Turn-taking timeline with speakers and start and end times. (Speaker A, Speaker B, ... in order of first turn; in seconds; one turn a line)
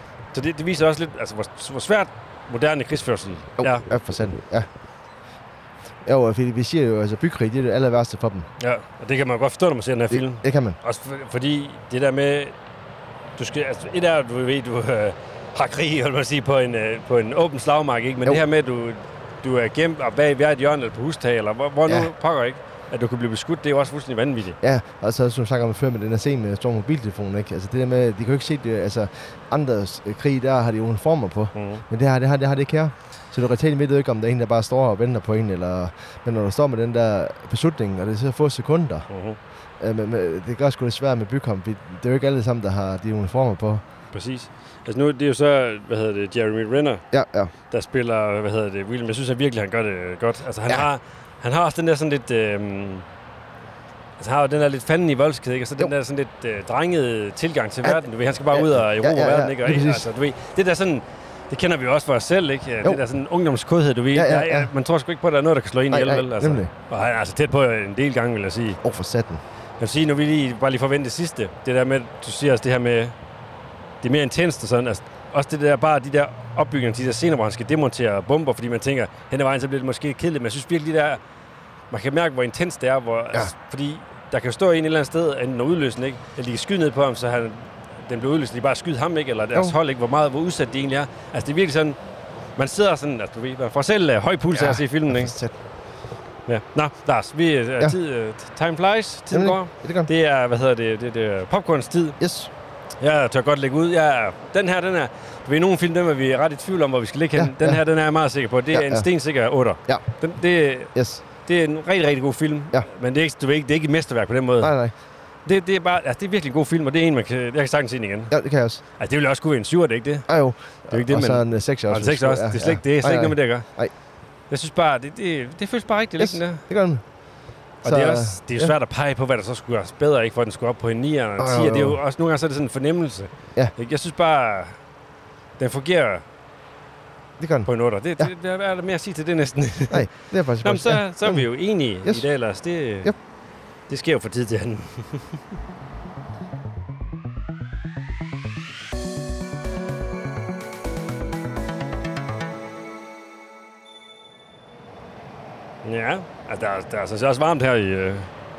Speaker A: 0.3-3.8
Speaker B: 3.6-4.7
Speaker B: 6.0-8.5
Speaker A: 8.6-12.5
Speaker B: 10.1-10.8
Speaker A: 13.4-24.6
Speaker B: 24.6-39.1
Speaker A: 31.5-31.8
Speaker A: 39.1-39.4
Speaker B: 39.8-43.8
Speaker A: 44.1-47.0
Speaker B: 47.1-47.5
Speaker A: 47.6-53.0
Speaker A: 54.2-68.8
Speaker B: 57.8-60.1
Speaker B: 64.1-64.7
Speaker B: 65.9-66.7
Speaker B: 68.8-69.4
Speaker A: 69.8-73.1
Speaker A: 74.0-81.2
Speaker A: 81.9-92.0
Speaker A: 92.5-95.3
Speaker B: 94.5-95.5
Speaker A: 96.5-102.2
Speaker B: 99.3-100.1
Speaker B: 102.2-102.5
Speaker A: 103.0-114.7
Speaker B: 107.3-107.8
Speaker B: 108.7-109.1
Speaker B: 110.9-111.2
Speaker B: 114.6-114.9
Speaker A: 115.4-118.3
Speaker B: 118.3-118.8
Speaker A: 119.0-120.3
Speaker B: 120.3-123.9
Speaker A: 120.8-123.7
Speaker A: 124.5-126.6
Speaker B: 126.2-127.0
Speaker A: 127.8-134.8
Speaker B: 127.8-128.7
Speaker B: 131.4-132.0
Speaker A: 135.6-136.2
Speaker B: 137.4-138.3
Speaker A: 137.7-143.2
Speaker B: 139.9-142.3
Speaker A: 143.9-145.4
Speaker A: 155.8-158.3